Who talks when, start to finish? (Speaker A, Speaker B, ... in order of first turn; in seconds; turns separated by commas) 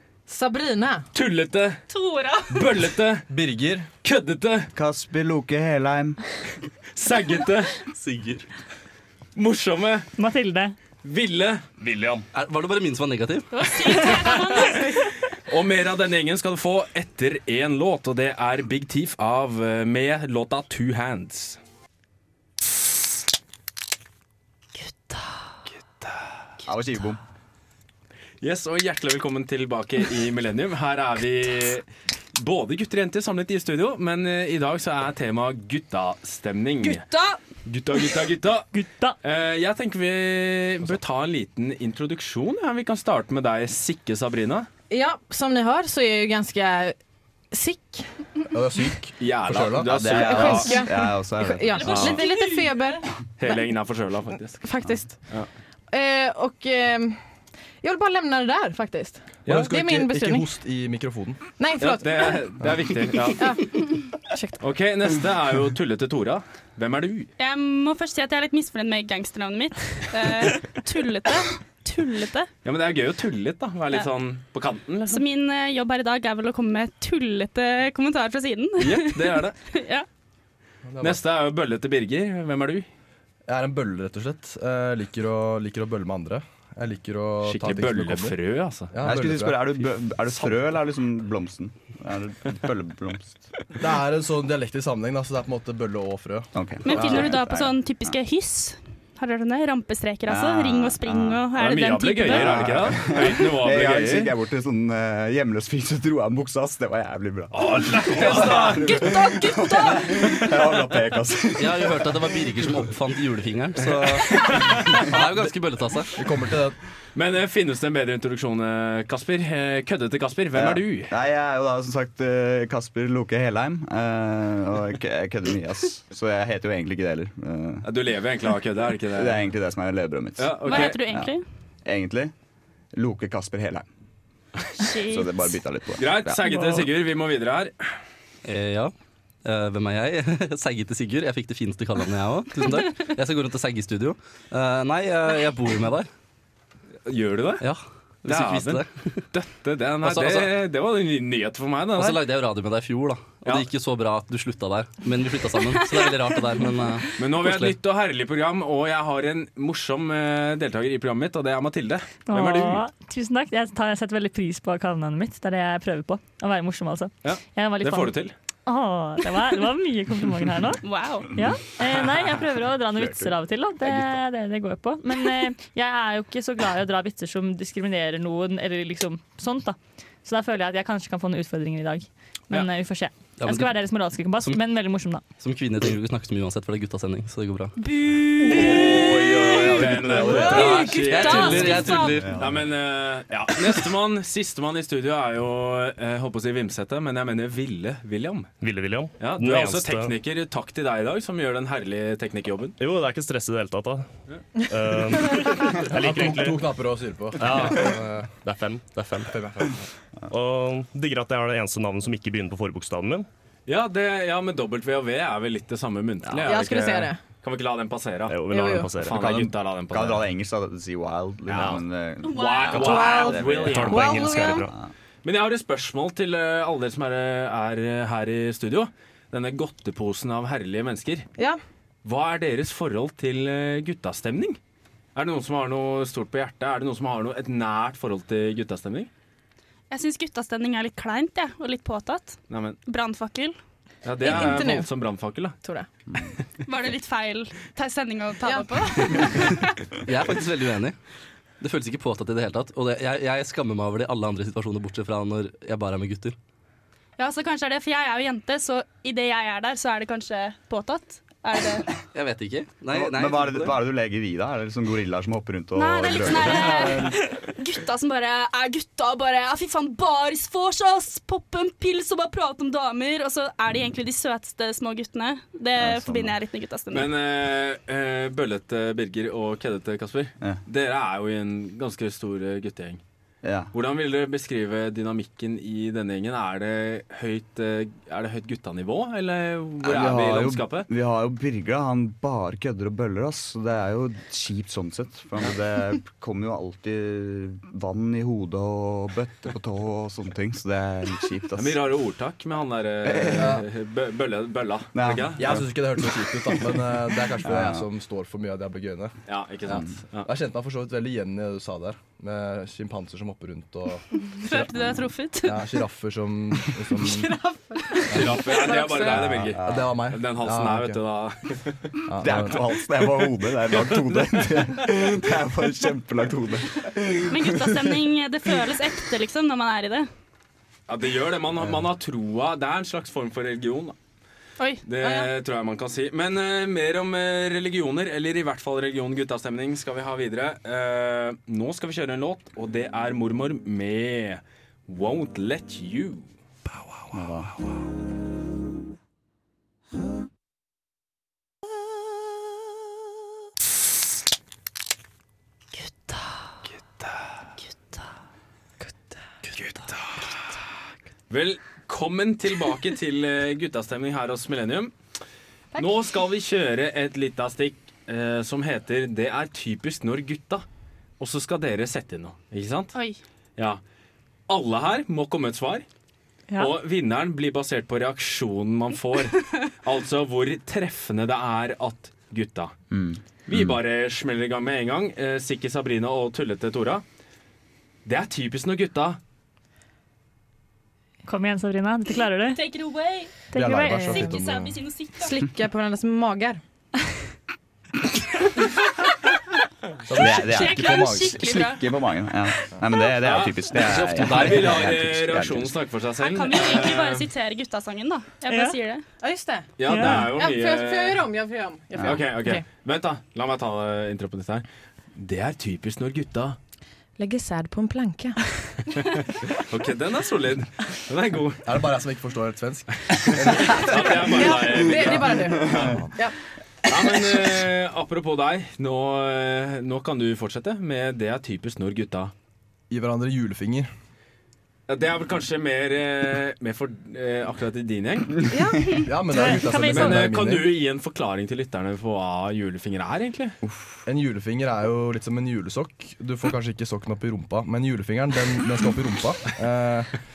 Speaker A: 0.3-1.1, Speaker B: 1.1-1.8, Speaker C: 1.9-2.6, Speaker B: 2.5-3.3, Speaker D: 3.3-3.9, Speaker B: 4.0-4.7, Speaker E: 4.7-6.2, Speaker B: 7.0-7.8, Speaker F: 7.9-8.4, Speaker B: 9.4-10.1, Speaker G: 10.2-10.8, Speaker B: 11.0-11.6, Speaker H: 11.8-12.2, Speaker F: 12.3-13.5, Speaker C: 13.5-15.1, Speaker G: 14.2-14.7, Speaker B: 15.5-21.6, Speaker C: 24.9-25.3, Speaker B: 26.0-26.3, Speaker E: 26.7-27.2, Speaker B: 28.4-37.1, Speaker C: 36.9-37.4, Speaker B: 37.6-38.7, Speaker G: 38.7-39.2, Speaker B: 39.2-44.7, Speaker A: 44.9-47.0, Speaker A: 47.5-48.1, Speaker D: 48.5-50.1, Speaker B: 49.2-50.8, Speaker E: 49.9-52.2, Speaker A: 50.1-53.0, Speaker C: 51.7-52.7, Speaker B: 51.9-52.2, Speaker B: 53.4-54.6, Speaker A: 54.6-55.2, Speaker A: 55.9-57.2, Speaker A: 57.8-60.5, Speaker D: 59.5-61.4, Speaker A: 61.6-62.4, Speaker B: 61.8-63.6, Speaker A: 63.4-64.6, Speaker B: 64.6-67.3, Speaker C: 67.4-72.5, Speaker B: 72.7-75.2, Speaker C: 75.1-80.1, Speaker B: 78.8-79.6, Speaker D: 80.9-81.2, Speaker B: 81.0-82.9, Speaker D: 83.5-88.4, Speaker B: 87.4-88.9, Speaker D: 88.9-89.7, Speaker E: 89.0-93.5, Speaker D: 93.8-97.4, Speaker E: 96.5-98.2, Speaker C: 96.8-102.7, Speaker E: 100.3-101.5, Speaker B: 101.6-104.3, Speaker E: 102.3-112.4, Speaker B: 107.5-109.2, Speaker C: 108.3-110.4, Speaker F: 111.6-114.3, Speaker B: 114.1-115.0, Speaker E: 114.3-115.2, Speaker F: 115.1-116.1, Speaker D: 116.2-116.8, Speaker B: 117.2-121.1, Speaker E: 120.5-127.9, Speaker B: 127.8-129.5, Speaker E: 129.1-131.3, Speaker B: 130.4-131.0, Speaker C: 130.6-131.4, Speaker E: 131.8-132.3, Speaker E: 132.9-133.9, Speaker C: 134.8-135.4, Speaker E: 135.1-136.8, Speaker B: 136.0-137.7, Speaker F: 138.4-138.9, Speaker F: 139.4-146.1, Speaker B: 147.1-147.7, Speaker F: 147.6-149.2, Speaker B: 148.2-152.2, Speaker F: 150.0-150.5, Speaker F: 151.9-157.8, Speaker C: 155.8-156.6, Speaker B: 157.2-162.8, Speaker G: 162.3-168.2, Speaker B: 167.2-168.3, Speaker G: 168.7-185.2, Speaker C: 170.8-171.3, Speaker E: 172.9-173.3, Speaker F: 183.4-183.7, Speaker F: 185.4-187.7, Speaker C: 187.8-192.3, Speaker B: 188.5-198.5, Speaker F: 188.6-192.5, Speaker E: 188.9-190.6, Speaker E: 191.9-192.6, Speaker H: 198.6-200.2, Speaker B: 199.2-202.8, Speaker H: 202.8-204.1, Speaker H: 204.7-206.7, Speaker D: 205.9-208.3, Speaker H: 207.4-209.7, Speaker D: 209.3-209.8, Speaker H: 210.3-213.3, Speaker B: 213.7-218.4, Speaker A: 216.4-217.2, Speaker H: 218.3-219.3, Speaker A: 218.5-218.9, Speaker B: 219.0-220.3, Speaker E: 219.0-224.9, Speaker H: 221.5-221.8, Speaker C: 222.2-223.2, Speaker B: 222.3-224.4, Speaker A: 222.7-224.7, Speaker H: 222.8-224.7, Speaker B: 225.2-231.3, Speaker B: 232.0-234.6, Speaker B: 235.2-239.1, Speaker C: 239.9-243.6, Speaker B: 242.5-242.8, Speaker B: 244.0-245.6, Speaker A: 244.2-244.9, Speaker A: 245.6-245.9, Speaker C: 246.7-249.5, Speaker A: 248.4-249.6, Speaker F: 250.1-251.0, Speaker F: 251.6-256.4, Speaker C: 257.2-261.9, Speaker F: 262.1-263.8, Speaker E: 262.9-267.2, Speaker C: 265.8-277.1, Speaker E: 275.8-276.4, Speaker B: 276.9-283.0, Speaker E: 283.4-283.7, Speaker B: 283.7-290.9, Speaker E: 289.8-301.8, Speaker B: 301.6-305.6, Speaker E: 303.0-303.6, Speaker D: 303.4-303.6, Speaker E: 304.9-306.3, Speaker D: 305.4-309.1, Speaker E: 307.4-307.9, Speaker B: 309.3-310.3, Speaker D: 310.2-317.3, Speaker C: 314.1-315.6, Speaker A: 317.0-319.1, Speaker D: 318.1-318.4, Speaker B: 318.1-321.8, Speaker E: 319.1-320.0, Speaker D: 319.6-321.0, Speaker D: 322.1-322.6, Speaker E: 322.2-328.0, Speaker C: 327.3-330.1, Speaker B: 330.9-334.0, Speaker C: 334.6-334.8, Speaker B: 334.8-346.3, Speaker A: 335.0-335.3, Speaker E: 347.1-347.5, Speaker B: 357.0-357.4, Speaker A: 358.8-359.2, Speaker B: 359.5-360.3, Speaker B: 361.3-364.9, Speaker B: 365.8-370.6, Speaker B: 371.2-372.9, Speaker C: 372.9-373.2, Speaker B: 374.5-375.9, Speaker B: 376.6-382.7, Speaker E: 382.9-383.7, Speaker B: 383.5-387.0, Speaker B: 388.1-389.2, Speaker G: 391.2-392.6, Speaker C: 392.5-395.4, Speaker G: 393.5-394.3, Speaker D: 393.6-394.7, Speaker A: 393.9-394.2, Speaker A: 395.2-396.6, Speaker D: 400.1-401.3, Speaker E: 400.2-405.8, Speaker C: 400.3-401.8, Speaker B: 403.2-407.3, Speaker F: 404.1-404.9, Speaker C: 406.2-409.1, Speaker G: 408.5-408.8, Speaker A: 409.2-412.6, Speaker B: 409.8-411.3, Speaker G: 409.9-410.2, Speaker B: 412.0-416.6, Speaker A: 417.2-418.4, Speaker B: 419.5-421.7, Speaker D: 421.7-426.1, Speaker B: 423.2-425.9, Speaker A: 424.2-426.3, Speaker B: 426.9-432.3, Speaker D: 432.9-433.9, Speaker B: 434.9-438.4, Speaker A: 438.5-438.9, Speaker D: 439.0-440.7, Speaker G: 439.3-440.2, Speaker C: 439.6-440.1, Speaker B: 439.8-443.6, Speaker D: 443.6-450.2